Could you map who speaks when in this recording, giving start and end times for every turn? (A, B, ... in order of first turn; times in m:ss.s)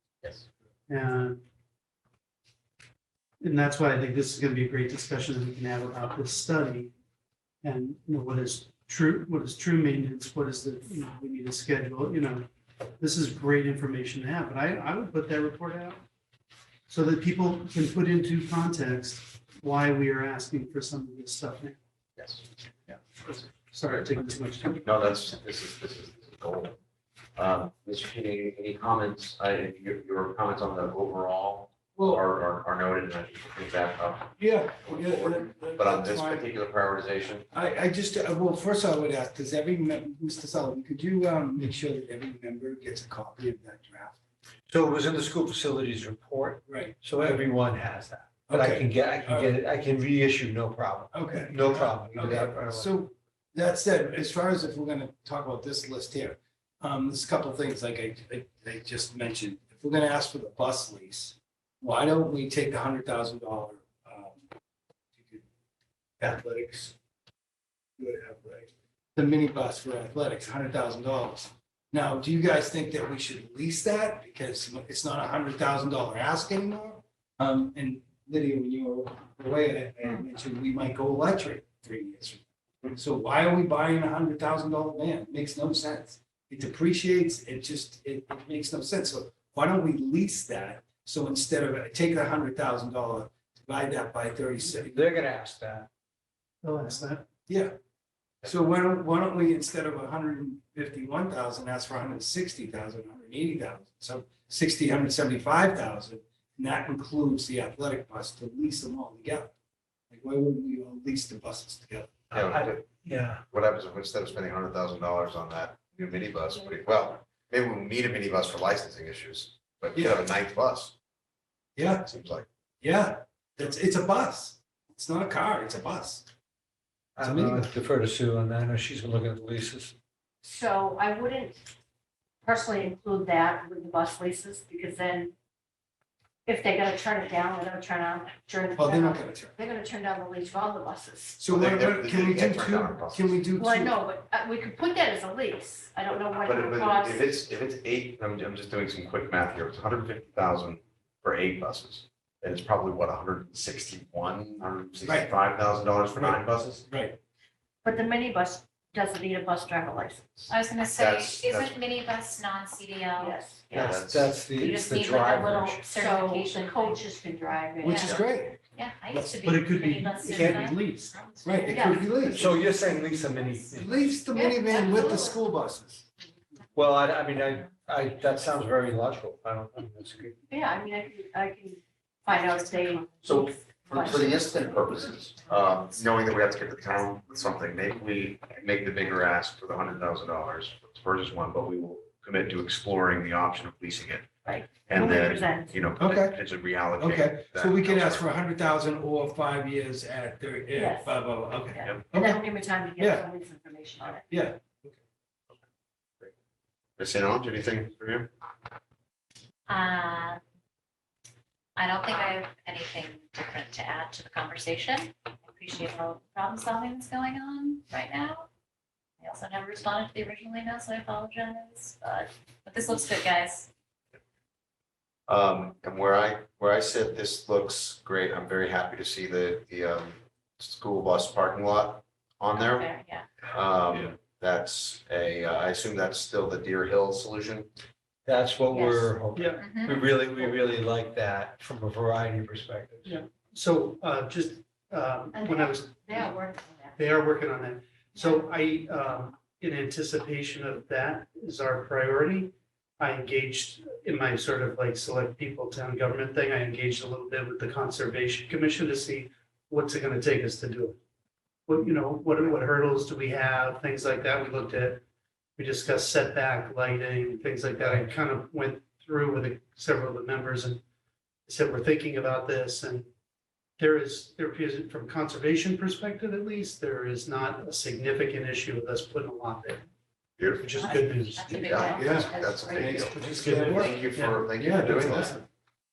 0:00.9-0:01.4 A
0:03.4-0:06.9 A
0:07.6-0:12.5 A
0:13.0-0:16.0 A
0:16.9-0:21.8 A
0:22.2-0:22.4 B
0:22.9-0:25.0 A
0:24.8-0:26.8 B
0:27.4-0:37.4 B
0:32.0-0:32.2 C
0:34.4-0:36.5 C
0:37.5-0:44.2 C
0:44.7-0:52.9 D
0:46.7-0:47.0 C
0:48.5-0:49.5 C
0:51.1-1:04.5 C
1:05.2-1:05.4 C
1:06.2-1:07.0 C
1:08.0-1:35.0 C
1:34.9-1:35.9 D
1:36.6-1:37.2 A
1:37.5-1:37.8 C
1:38.4-1:49.5 C
1:50.1-1:52.3 C
1:52.3-1:53.4 D
1:52.3-1:52.9 B
1:53.5-2:00.9 B
2:00.0-2:00.2 C
2:01.8-2:02.1 C
2:02.1-2:02.5 B
2:02.8-2:06.3 C
2:07.2-2:09.9 D
2:07.2-2:07.7 C
2:10.4-2:11.7 E
2:12.4-2:15.3 E
2:16.4-2:21.5 E
2:18.8-2:19.6 C
2:21.4-2:24.0 C
2:21.5-2:23.5 B
2:23.6-2:27.3 E
2:26.3-2:36.8 B
2:35.0-2:35.3 C
2:36.2-2:37.2 C
2:37.8-2:40.5 E
2:40.5-2:43.4 F
2:40.9-2:41.8 B
2:43.2-2:44.0 E
2:43.7-2:45.8 D
2:43.8-2:44.3 B
2:44.5-2:47.0 F
2:45.1-2:48.1 E
2:47.8-2:48.6 C
2:47.8-2:53.9 F
2:49.1-2:49.4 C
2:49.4-2:51.2 A
2:50.3-2:50.7 D
2:51.4-2:52.5 C
2:51.7-2:52.5 E
2:52.3-2:54.0 D
2:53.7-2:56.0 C
2:54.3-2:55.5 E
2:56.8-3:00.4 D
3:00.5-3:05.0 E
3:03.2-3:18.3 B
3:05.5-3:05.9 F
3:14.4-3:15.9 E
3:16.0-3:16.4 C
3:17.0-3:22.4 C
3:20.8-3:21.2 E
3:21.7-3:24.3 E
3:21.8-3:22.1 B
3:23.0-3:23.3 C
3:24.3-3:25.0 C
3:27.0-3:28.3 B
3:29.7-3:30.4 F
3:31.8-3:38.5 F
3:39.2-3:43.7 F
3:45.3-3:52.9 B
3:52.5-3:53.3 F
3:53.4-3:57.7 B
3:58.3-4:03.2 D
3:58.7-3:59.2 E
3:59.3-3:59.6 A
3:59.6-4:00.0 F
4:03.0-4:06.3 A
4:05.3-4:07.0 E
4:07.0-4:21.0 A
4:08.2-4:08.4 E
4:21.7-4:25.0 A
4:25.6-4:30.8 A
4:27.8-4:28.1 D
4:31.5-4:33.1 A
4:33.8-4:39.8 A
4:40.4-4:40.8 B
4:40.6-4:42.1 A
4:40.8-4:42.5 F
4:41.5-4:45.4 B
4:41.9-4:42.8 E
4:42.0-4:45.4 C
4:42.6-4:44.4 A